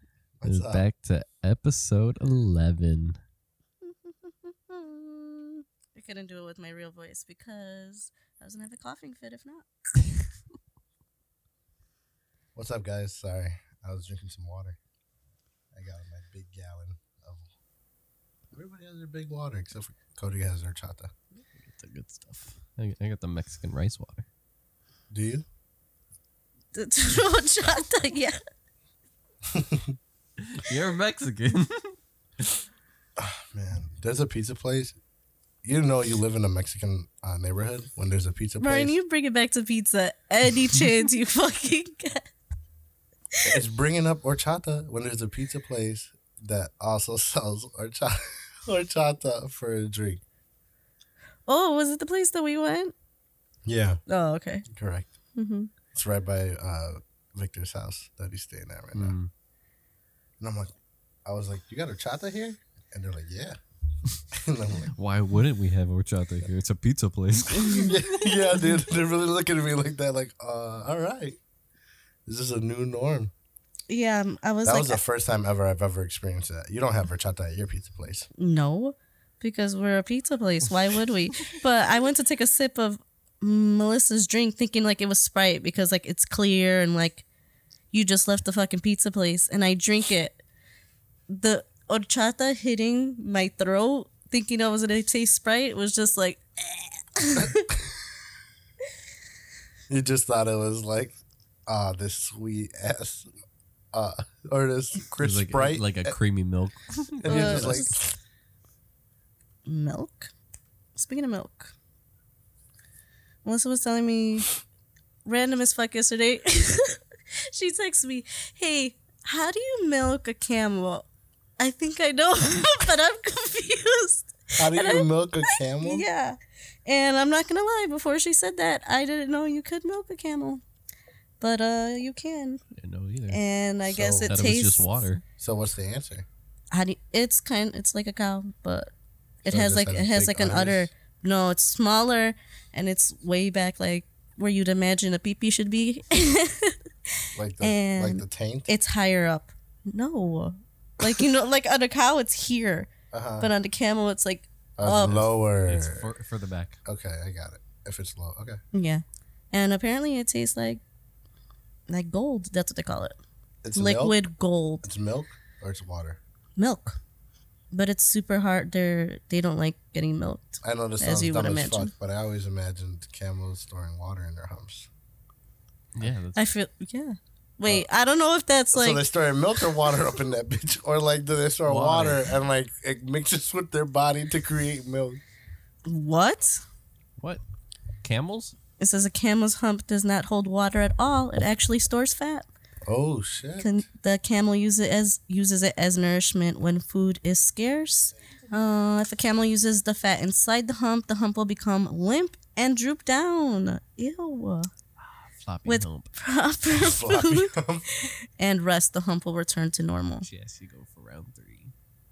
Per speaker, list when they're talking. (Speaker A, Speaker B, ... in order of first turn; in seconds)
Speaker A: 0.4-0.8, 12.5-14.8, 15.7-17.5, 18.5-21.1, 25.1-25.4, 29.5-29.9, 33.2-35.0, 35.6-39.0, 43.4-50.2, 53.6-54.0, 54.7-55.1, 55.9-59.1, 60.4-60.7, 61.2-63.6, 64.3-64.9, 67.7-71.4, 72.2-73.3, 74.6-78.3, 97.3-98.0, 99.9-101.2, 101.7-103.3, 103.9-106.1, 107.2-108.2, 124.6-126.0, 133.9-134.5, 135.4-136.2, 139.4-140.9, 147.3-148.7, 153.1-153.5, 154.8-156.0, 156.8-158.6, 163.6-164.2, 164.8-166.2, 170.6-174.9, 178.7-185.2, 192.8-193.7, 206.8-207.9
Speaker B: 0.4-3.2, 21.4-24.3, 30.4-32.6, 58.9-59.3, 65.0-67.9, 105.2-107.8, 132.8-133.4, 134.3-135.2, 155.6-156.8, 175.9-176.4, 181.6-182.2, 188.0-188.5, 205.0-206.1, 210.2-211.7
Speaker C: 3.8-9.7, 26.7-28.4, 38.6-42.3, 51.5-52.9, 54.1-54.6, 55.4-55.7, 67.5-67.9, 73.9-75.0, 78.4-87.2, 87.9-90.4, 91.3-97.7, 107.2-108.0, 109.7-110.3, 111.0-111.7, 113.4-114.5, 115.2-121.1, 121.6-130.6, 131.4-132.6, 133.3-134.9, 136.7-138.9, 139.4-146.8, 147.6-155.3, 158.7-160.8, 161.9-163.2, 163.7-164.8, 166.6-167.0, 167.7-171.9, 176.3-179.0, 185.8-186.6, 188.8-192.4, 193.6-204.7, 205.7-210.2